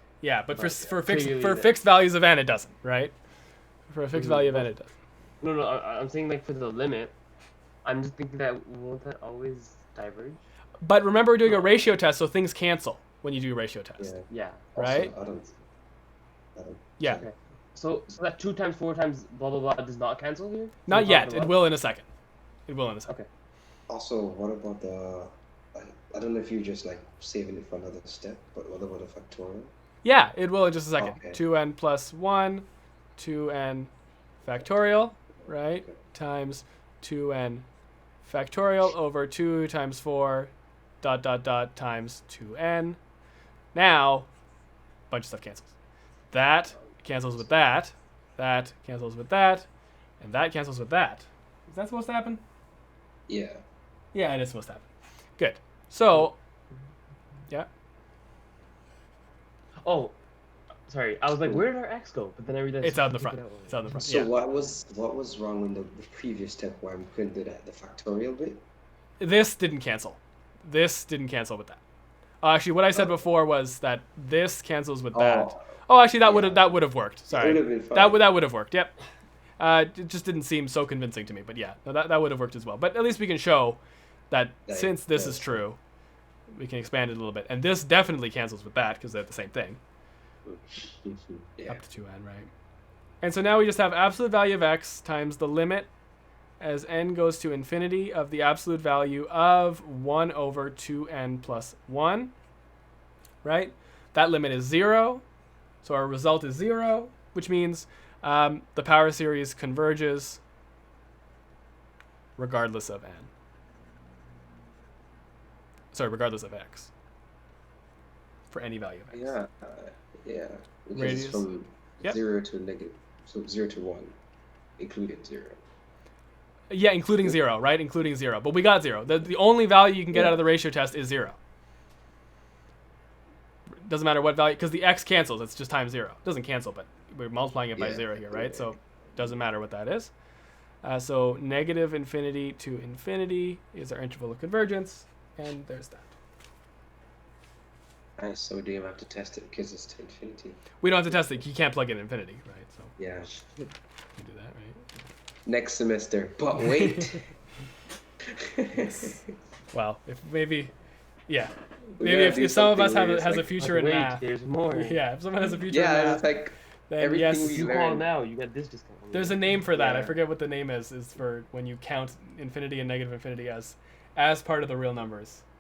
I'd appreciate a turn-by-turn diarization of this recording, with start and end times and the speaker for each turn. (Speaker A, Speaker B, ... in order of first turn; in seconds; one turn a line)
Speaker A: 0.2-3.1
Speaker B: 0.6-1.7
Speaker A: 3.9-4.9
Speaker B: 4.1-4.7
Speaker B: 5.4-7.2
Speaker B: 7.8-10.4
Speaker A: 10.8-14.2
Speaker B: 11.5-11.8
Speaker C: 14.0-15.5
Speaker B: 14.3-14.7
Speaker A: 14.8-15.1
Speaker C: 16.6-17.3
Speaker B: 17.1-21.7
Speaker A: 20.9-22.1
Speaker A: 22.7-23.1
Speaker C: 23.9-29.7
Speaker A: 30.0-32.7
Speaker C: 31.0-31.4
Speaker A: 33.2-33.9
Speaker A: 34.4-37.7
Speaker A: 38.2-40.5
Speaker A: 41.0-43.0
Speaker A: 43.7-44.3
Speaker A: 45.1-45.7
Speaker A: 46.3-49.7
Speaker A: 50.2-52.4
Speaker C: 53.3-53.6
Speaker A: 54.1-54.9
Speaker A: 55.4-56.4
Speaker B: 59.8-60.2
Speaker B: 60.9-63.9
Speaker A: 62.8-64.4
Speaker C: 64.0-68.6
Speaker A: 69.2-71.8
Speaker A: 72.4-78.9
Speaker C: 75.1-75.7
Speaker C: 76.2-78.2
Speaker A: 79.6-83.8
Speaker A: 84.3-85.8
Speaker C: 84.7-85.6
Speaker A: 86.5-89.8
Speaker C: 90.5-91.8
Speaker A: 91.7-92.5
Speaker A: 93.2-95.9
Speaker A: 96.6-102.3
Speaker A: 103.4-105.2
Speaker A: 105.8-110.4
Speaker A: 112.4-113.3
Speaker A: 115.9-116.9
Speaker A: 118.5-119.3
Speaker C: 119.1-124.1
Speaker A: 121.0-121.5
Speaker C: 124.8-125.6
Speaker A: 126.7-131.4
Speaker C: 130.1-130.4
Speaker A: 133.8-140.1
Speaker C: 137.8-138.7
Speaker A: 140.8-146.1
Speaker C: 148.2-150.6
Speaker A: 150.8-152.9
Speaker C: 153.0-153.3
Speaker A: 154.2-154.9
Speaker C: 155.5-157.3
Speaker C: 158.4-159.2
Speaker A: 158.9-159.2
Speaker A: 159.7-160.7
Speaker A: 161.3-166.3
Speaker C: 161.9-163.5
Speaker B: 163.6-165.0
Speaker C: 165.7-168.1
Speaker A: 166.9-167.7
Speaker B: 167.5-169.6
Speaker A: 169.1-175.4
Speaker C: 169.7-170.2